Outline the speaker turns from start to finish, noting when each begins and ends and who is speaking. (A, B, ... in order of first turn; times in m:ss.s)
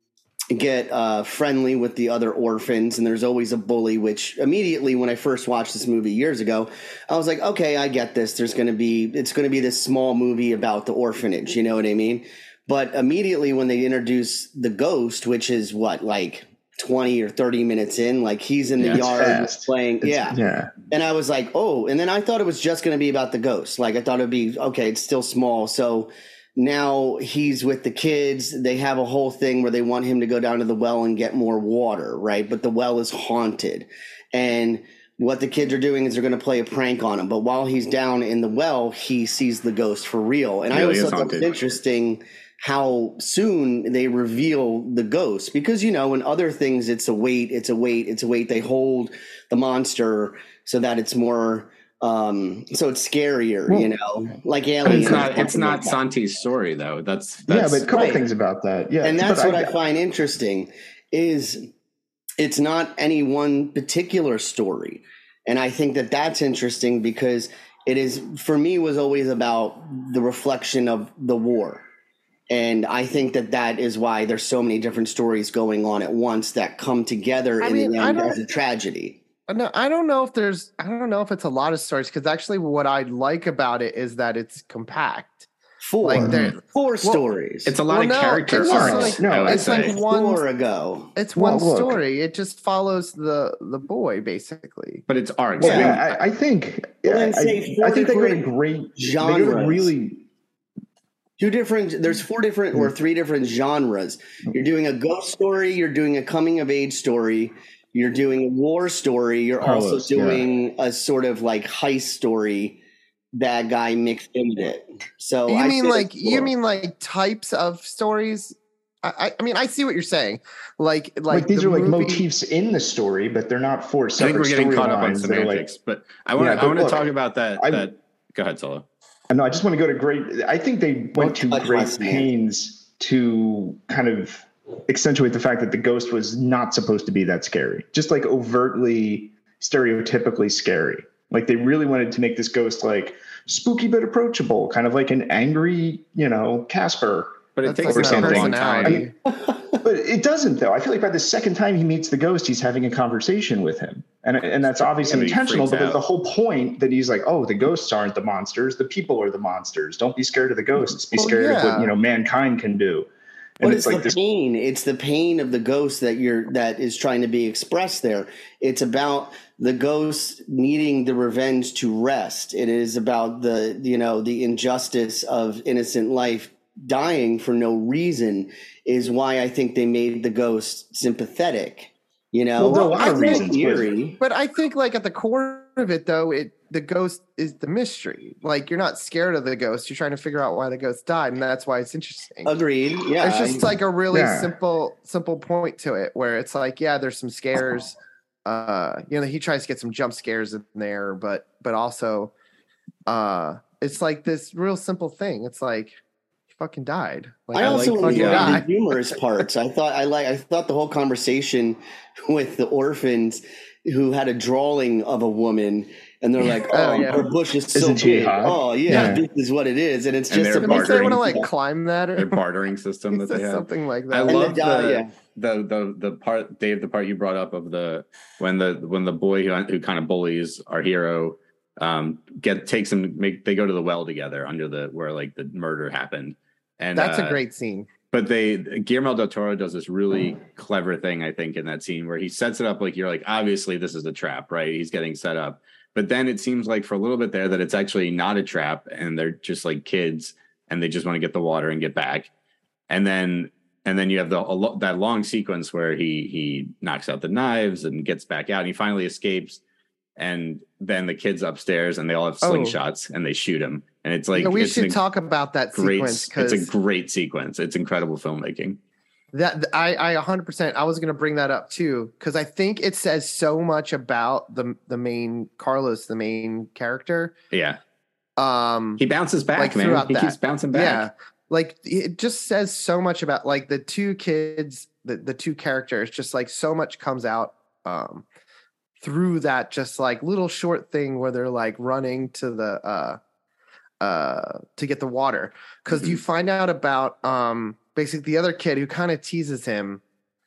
0:00.5-0:20.4 A
0:18.8-0:20.7 B
0:20.9-0:56.0 A
0:40.7-0:41.6 C
0:54.8-0:55.4 B
0:54.8-0:57.9 C
0:57.5-0:59.7 B
0:57.9-0:58.2 A
0:59.0-1:01.7 A
1:02.4-1:11.8 A
1:12.5-1:19.2 A
1:17.6-1:18.4 D
1:19.5-1:25.5 D
1:25.8-1:27.8 A
1:26.0-1:27.2 D
1:26.2-1:26.5 B
1:27.7-1:30.0 C
1:27.9-1:30.4 D
1:28.5-1:29.7 B
1:29.6-1:31.1 A
1:31.2-1:35.0 D
1:31.4-1:32.0 B
1:35.1-1:36.2 C
1:35.6-1:40.2 B
1:35.6-1:36.0 A
1:37.0-1:38.4 A
1:39.0-1:39.9 A
1:41.4-1:52.8 A
1:49.6-1:50.5 B
1:53.3-1:56.5 A
1:55.5-2:02.3 D
2:01.3-2:05.7 B
2:04.2-2:08.9 C
2:06.4-2:07.9 B
2:09.3-2:29.1 B
2:11.2-2:12.3 A
2:27.6-2:29.0 C
2:27.6-2:29.1 D
2:29.3-2:29.8 A
2:29.8-2:43.1 B
2:34.7-2:36.0 C
2:41.2-2:41.9 D
2:43.6-2:44.2 B
2:43.6-3:04.2 A
3:02.6-3:04.2 B
3:02.7-3:03.5 D
3:04.2-3:12.5 D
3:12.5-3:13.7 A
3:13.2-3:22.3 D
3:14.1-3:14.5 B
3:23.1-3:26.0 D
3:26.6-3:28.7 D
3:27.5-3:41.5 A
3:27.6-3:28.6 C
3:36.7-3:37.2 D
3:37.7-3:39.3 B
3:38.9-3:39.2 D
3:40.3-3:41.4 C
3:40.6-3:42.4 D
3:42.2-3:57.4 C
3:43.1-3:44.6 D
3:44.3-3:45.1 A
3:57.0-3:57.9 D
3:58.1-4:12.3 C
4:12.9-4:19.6 C
4:20.2-4:25.0 C
4:22.4-4:22.8 D
4:24.3-4:26.7 D
4:25.8-4:28.8 C
4:29.3-4:37.3 D
4:37.5-4:37.8 C
4:38.4-4:39.0 D
4:39.0-4:41.1 C
4:39.6-4:48.2 D
4:49.0-4:53.2 D
4:54.0-5:00.0 D
4:55.9-4:56.2 C